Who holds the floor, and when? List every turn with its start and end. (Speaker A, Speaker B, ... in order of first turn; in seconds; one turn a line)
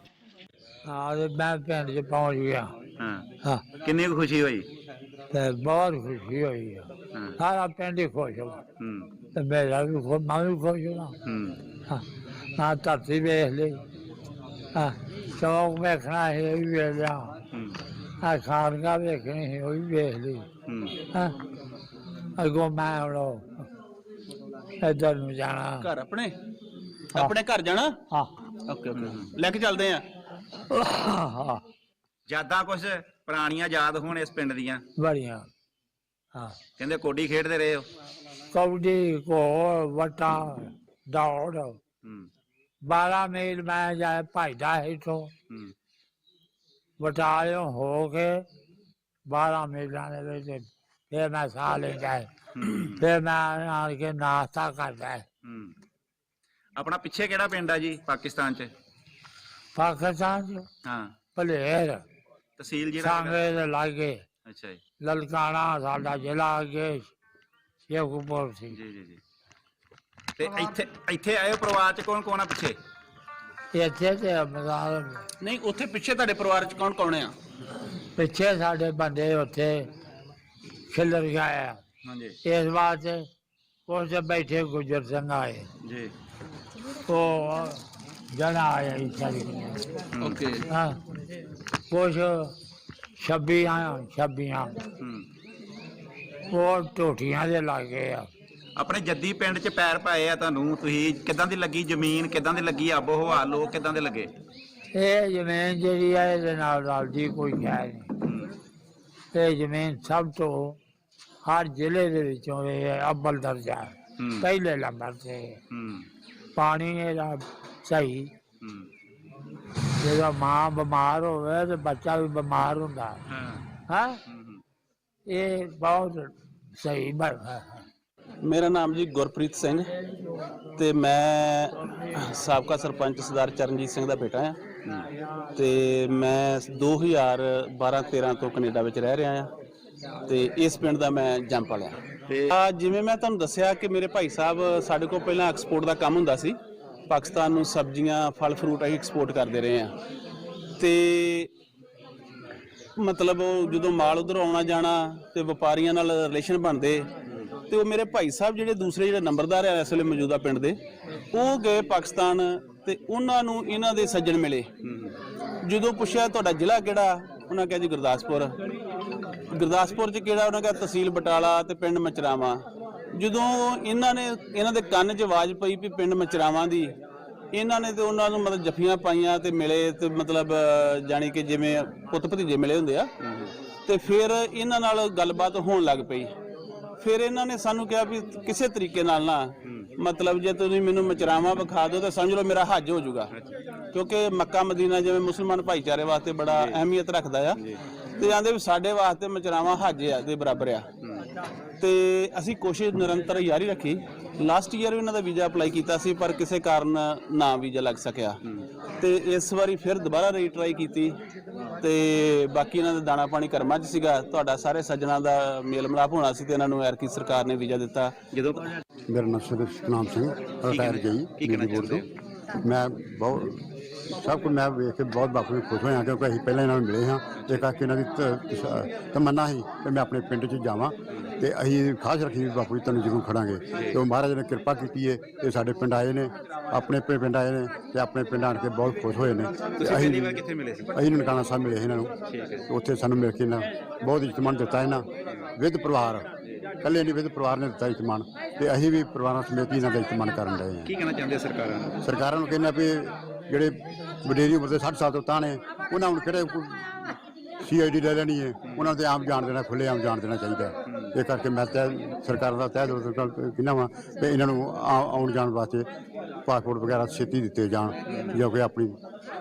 Speaker A: 0.8-2.7
Speaker B: 3.0-3.2
Speaker A: 3.4-3.7
Speaker B: 3.8-4.7
Speaker A: 5.3-8.6
Speaker B: 8.8-9.1
Speaker A: 9.3-11.1
Speaker B: 11.2-11.6
Speaker A: 12.6-13.8
Speaker A: 14.7-17.4
Speaker B: 17.5-17.8
Speaker A: 18.2-20.4
Speaker B: 20.7-20.9
Speaker A: 21.1-21.4
Speaker A: 22.4-23.6
Speaker A: 24.8-25.9
Speaker C: 25.8-26.4
Speaker C: 27.1-28.0
Speaker C: 28.7-30.0
Speaker B: 28.9-29.3
Speaker A: 30.7-31.6
Speaker B: 32.3-34.8
Speaker A: 35.0-35.5
Speaker B: 36.8-37.9
Speaker A: 38.5-41.8
Speaker A: 42.9-45.3
Speaker A: 47.0-48.4
Speaker A: 49.3-52.3
Speaker B: 52.5-53.0
Speaker A: 53.0-55.2
Speaker B: 55.4-55.7
Speaker B: 56.8-58.7
Speaker A: 59.8-60.6
Speaker B: 60.8-61.1
Speaker A: 61.3-62.0
Speaker B: 62.6-63.4
Speaker A: 63.0-64.2
Speaker B: 64.4-64.8
Speaker A: 65.0-67.1
Speaker A: 67.9-68.8
Speaker B: 68.7-69.2
Speaker B: 70.4-72.8
Speaker A: 73.7-75.2
Speaker C: 75.4-77.3
Speaker A: 78.2-79.9
Speaker A: 80.9-81.8
Speaker B: 82.0-82.4
Speaker A: 82.4-83.2
Speaker A: 83.9-85.7
Speaker B: 85.8-86.1
Speaker A: 87.1-87.8
Speaker A: 88.3-89.8
Speaker B: 90.2-90.6
Speaker C: 90.2-90.5
Speaker A: 90.7-91.0
Speaker A: 91.9-92.5
Speaker A: 93.2-94.8
Speaker B: 95.0-95.2
Speaker A: 96.5-98.3
Speaker B: 98.8-104.3
Speaker A: 104.9-108.1
Speaker B: 108.2-108.5
Speaker A: 109.3-110.8
Speaker A: 111.4-115.6
Speaker B: 114.2-114.5
Speaker B: 115.7-116.1
Speaker A: 116.5-118.3
Speaker B: 118.6-118.9
Speaker A: 120.0-123.2
Speaker B: 123.3-123.6
Speaker A: 123.9-124.2
Speaker B: 124.3-124.6
Speaker A: 125.3-127.8
Speaker C: 128.4-129.9
Speaker C: 130.8-134.6
Speaker C: 135.6-139.5
Speaker C: 140.3-142.0
Speaker C: 142.5-146.6
Speaker C: 147.1-149.9
Speaker C: 150.8-151.5
Speaker C: 153.0-157.1
Speaker C: 157.7-160.8
Speaker C: 161.3-164.7
Speaker B: 164.8-165.2
Speaker C: 165.6-168.5
Speaker C: 169.5-172.6
Speaker C: 173.2-176.9
Speaker C: 177.5-183.1
Speaker B: 183.2-183.5
Speaker C: 183.8-186.3
Speaker C: 187.0-193.3
Speaker B: 189.6-189.9
Speaker C: 193.9-197.6
Speaker B: 196.5-196.8
Speaker B: 197.5-197.8
Speaker C: 198.2-200.9
Speaker B: 201.0-201.3
Speaker C: 201.8-208.4
Speaker C: 209.0-211.2
Speaker C: 211.8-218.2
Speaker B: 218.3-218.6
Speaker D: 219.1-222.0
Speaker B: 220.6-222.1
Speaker D: 222.6-240.4
Speaker B: 227.4-227.7
Speaker B: 233.7-234.0
Speaker B: 239.8-240.9
Speaker D: 240.9-242.1
Speaker B: 242.3-242.7
Speaker D: 242.7-245.1
Speaker D: 245.6-246.3
Speaker D: 246.8-250.9
Speaker B: 250.8-251.9
Speaker D: 252.0-256.9
Speaker D: 257.6-265.9
Speaker B: 260.9-261.1
Speaker D: 266.4-268.9
Speaker B: 268.1-268.4